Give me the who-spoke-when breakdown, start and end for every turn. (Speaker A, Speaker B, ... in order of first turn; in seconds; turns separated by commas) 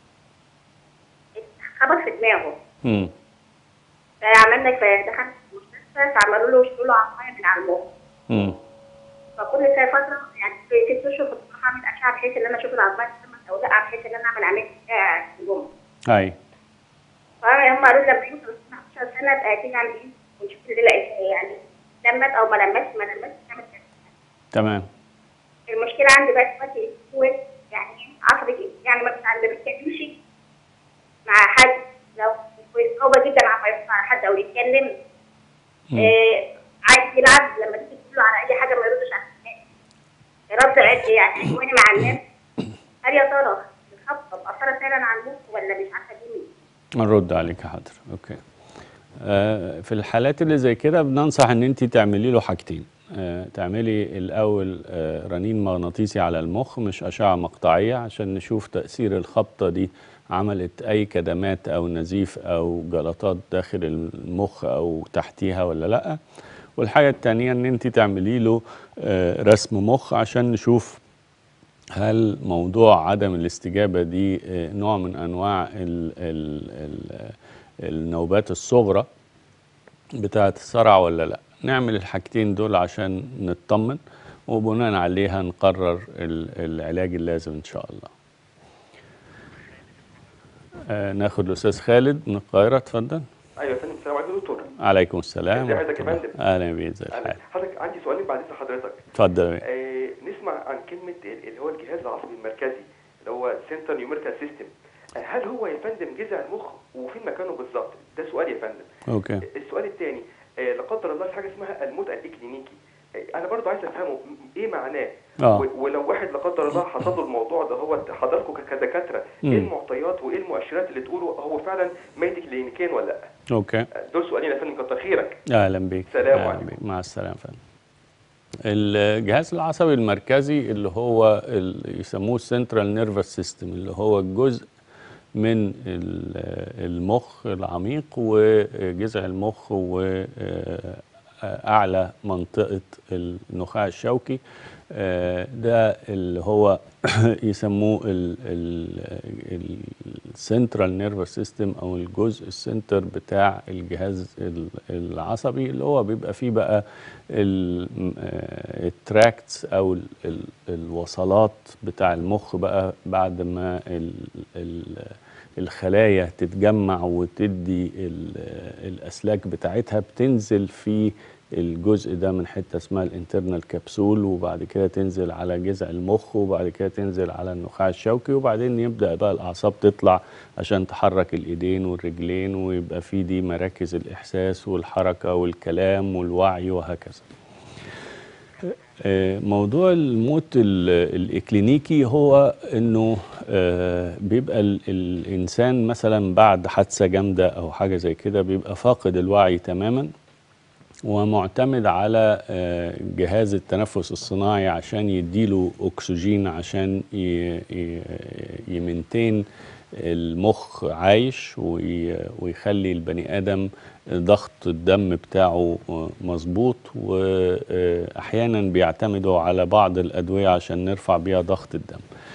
Speaker A: 1.4-2.5, Speaker B: 2.9-3.1, Speaker A: 4.2-7.8, Speaker B: 8.3-8.6, Speaker A: 9.4-15.7, Speaker B: 16.1-16.4, Speaker A: 17.4-23.9, Speaker B: 24.5-24.9, Speaker A: 25.7-30.1, Speaker A: 31.3-34.9, Speaker A: 36.0-39.6, Speaker A: 40.5-42.2, Speaker A: 43.0-46.5, Speaker B: 47.0-48.4, Speaker B: 49.2-66.2, Speaker B: 66.8-71.0, Speaker B: 72.0-79.1, Speaker B: 80.2-88.1, Speaker B: 90.9-93.2, Speaker C: 93.6-94.7, Speaker B: 94.8-97.4, Speaker C: 95.5-96.4, Speaker C: 97.1-99.0, Speaker B: 99.1-99.6, Speaker C: 99.6-108.9, Speaker B: 109.1-109.4, Speaker C: 109.5-112.8, Speaker C: 113.3-123.3, Speaker B: 115.4-115.7, Speaker B: 119.4-119.7, Speaker B: 123.5-123.9, Speaker C: 124.1-125.4, Speaker B: 125.5-127.6, Speaker C: 126.1-126.8, Speaker B: 128.6-134.7, Speaker B: 135.4-144.4, Speaker B: 144.9-187.3, Speaker B: 188.6-200.1, Speaker B: 201.1-209.4, Speaker B: 209.9-222.0